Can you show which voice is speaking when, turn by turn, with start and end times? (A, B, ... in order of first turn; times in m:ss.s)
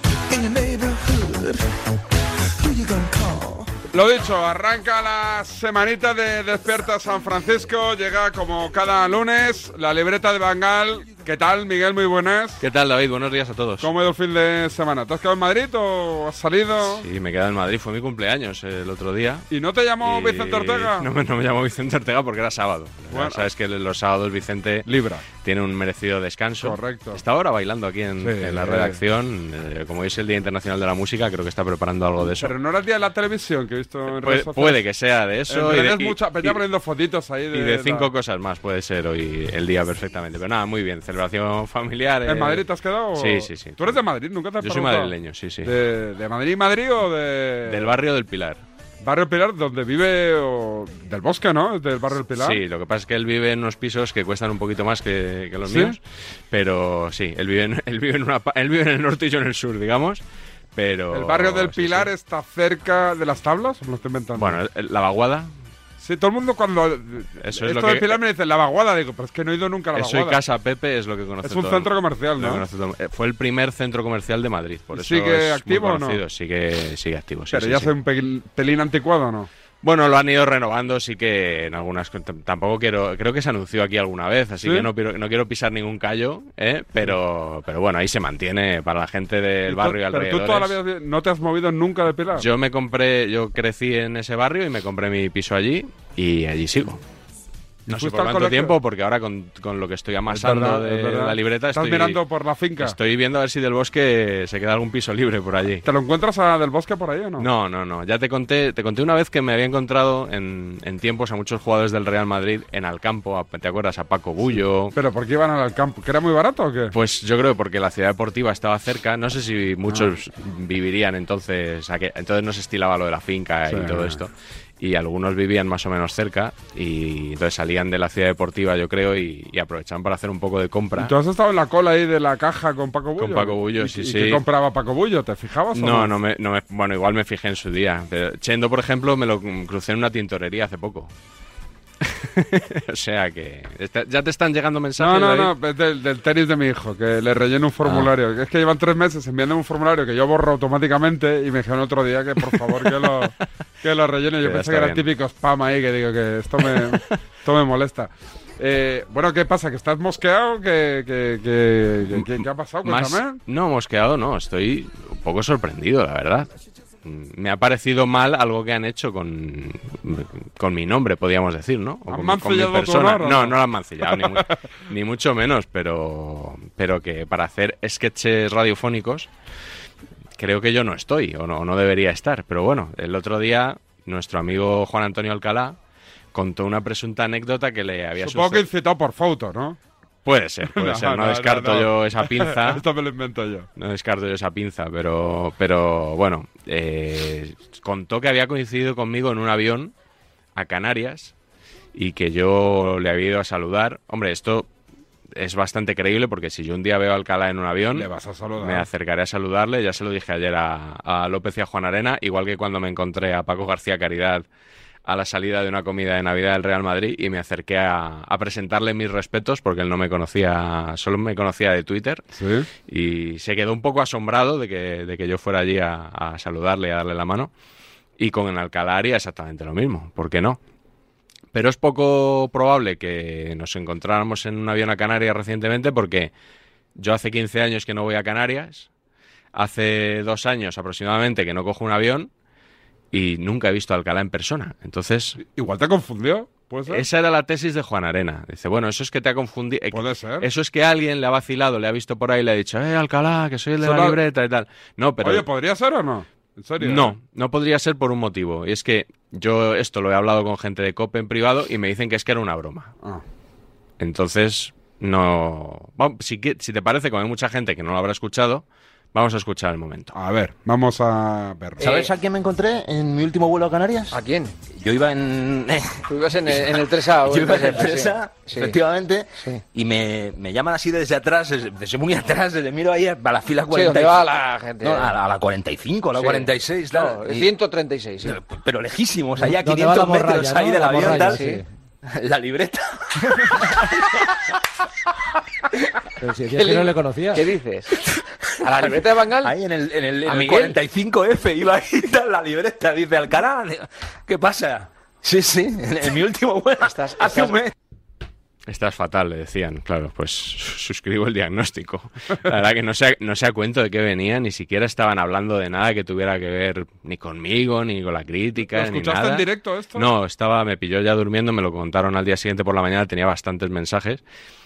0:01.1-0:01.6 A
0:02.8-0:03.6 A
0:03.9-0:12.6 B
0:12.6-0:13.9 C
0:13.8-0:17.0 B
0:16.8-0:19.5 C
0:19.5-0:21.1 B
0:20.0-0:24.9 C
0:23.1-0:23.5 B
0:24.9-0:25.3 B
0:25.4-0:32.5 C
0:26.6-0:27.2 B
0:28.2-0:29.0 B
0:32.4-0:34.8 B
0:34.1-0:36.6 C
0:35.5-0:38.1 B
0:37.5-0:42.6 C
0:42.3-0:45.1 B
0:43.2-0:44.0 C
0:44.6-0:45.7 C
0:45.6-0:48.0 B
0:47.7-0:48.6 C
0:49.0-0:52.6 B
0:52.4-1:00.2 C
0:55.7-0:56.0 B
1:00.8-1:02.1 C
1:01.1-1:04.6 B
1:04.4-1:05.5 C
1:06.0-1:10.4 B
1:07.4-1:08.2 C
1:10.0-1:17.9 C
1:11.4-1:12.6 B
1:14.9-1:16.2 B
1:17.5-1:19.5 B
1:19.8-1:30.8 C
1:24.6-1:24.9 B
1:29.7-1:32.5 B
1:32.4-1:37.0 C
1:37.9-1:38.8 B
1:37.9-1:42.2 C
1:40.3-1:43.0 B
1:42.8-1:45.8 C
1:45.8-1:47.5 B
1:47.4-1:54.9 C
1:54.9-1:56.9 B
1:56.9-2:11.1 C
2:03.7-2:04.2 B
2:11.0-2:16.1 B
2:13.2-2:14.4 C
2:15.8-2:21.1 C
2:22.1-2:25.5 C
2:25.0-2:43.4 B
2:27.8-2:28.1 C
2:32.5-2:33.1 C
2:34.4-2:35.1 C
2:36.6-2:36.9 C
2:42.1-2:46.5 C
2:47.0-2:59.3 C
2:52.1-2:54.5 B
3:00.4-3:05.8 C
3:06.3-3:08.6 C
3:08.2-3:09.8 B
3:10.2-3:12.8 C
3:10.7-3:13.7 B
3:13.8-3:19.9 C
3:20.6-3:21.3 C
3:22.0-3:24.7 C
3:25.4-3:28.1 C
3:27.9-3:28.9 B
3:28.6-3:34.4 C
3:35.1-3:42.2 C
3:42.3-3:42.7 B
3:42.9-3:47.5 C
3:48.2-3:50.6 C
3:51.5-3:56.3 C
3:57.0-3:58.9 C
3:59.6-4:02.3 C
4:03.1-4:05.4 C
4:05.4-4:07.0 B
4:06.9-4:15.4 C
4:09.9-4:10.5 B
4:13.8-4:14.2 B
4:15.2-4:17.2 B
4:16.8-4:22.9 C
4:24.0-4:30.1 C
4:30.1-4:31.8 B
4:31.8-4:32.1 D
4:31.8-4:34.2 A
4:34.1-4:34.5 D
4:34.8-4:44.2 A
4:36.1-4:38.8 D
4:43.7-4:45.1 D
4:44.8-4:47.5 A
4:46.2-4:48.4 D
4:48.2-4:51.6 A
4:49.4-4:51.6 E
4:50.9-4:51.6 D
4:52.1-4:53.6 A
4:56.3-4:57.3 E
4:56.6-4:57.9 D
4:58.6-4:59.5 D
4:58.7-5:07.7 A
5:00.3-5:00.8 D
5:06.8-5:07.6 D
5:08.7-5:24.2 C
5:18.6-5:20.1 B